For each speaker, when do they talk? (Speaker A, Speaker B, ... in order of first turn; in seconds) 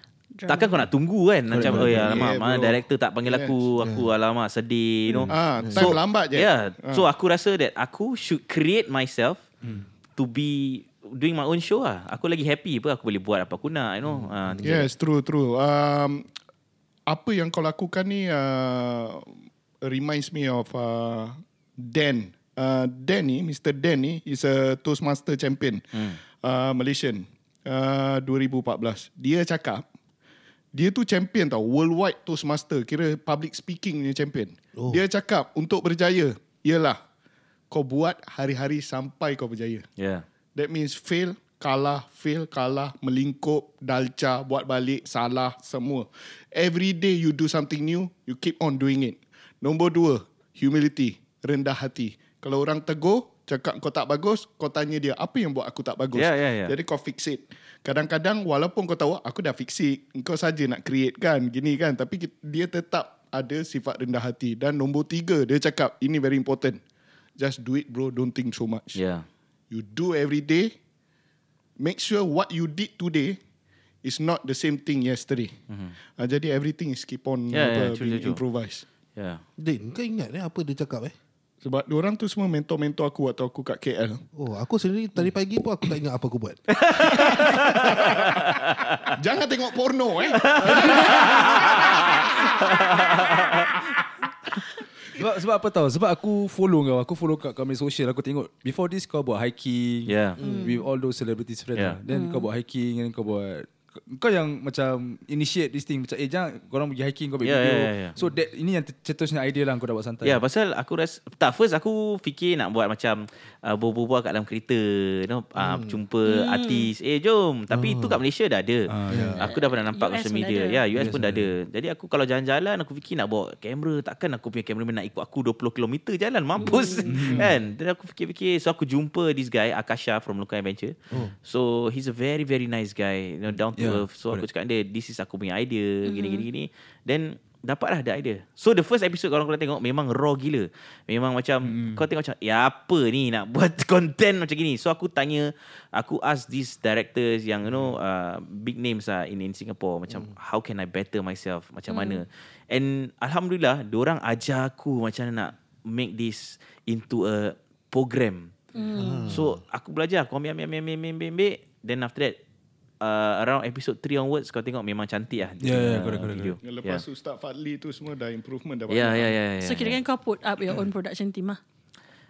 Speaker A: 0.4-0.8, 100.4-100.9, 102.1-102.5, 116.3-116.9, 119.4-120.8, 126.6-127.2, 136.1-136.4, 151.9-152.2, 158.8-159.4, 169.6-171.6
Speaker B: 0.5-9.5, 10.2-14.9, 40.0-40.2, 56.1-56.7, 69.0-69.2, 75.7-76.0, 77.5-78.4, 79.2-79.4, 86.8-89.1, 90.3-93.7, 100.1-100.4, 107.4-108.2, 110.2-158.5, 159.3-162.4, 163.0-167.0, 168.9-170.0
Speaker C: 1.5-2.2, 95.2-110.4, 118.9-119.4, 120.9-121.5, 127.1-127.5, 133.8-134.5, 141.6-142.0, 165.6-166.6
Speaker D: 1.6-2.2, 3.8-4.1, 5.6-5.9, 14.1-14.8, 34.8-35.0, 79.6-81.2, 84.3-86.6, 100.4-100.7, 115.6-116.0, 117.7-118.2, 119.1-119.4, 158.9-159.6
Speaker E: 2.0-3.5, 5.3-7.0, 14.6-16.2, 17.1-19.2, 19.9-29.8, 30.8-37.0, 37.7-39.9, 40.6-66.8, 67.4-69.0, 69.7-70.7, 71.8-73.4, 74.0-75.5, 76.2-78.8, 81.6-84.2, 87.9-88.4, 89.2-92.6, 166.6-169.3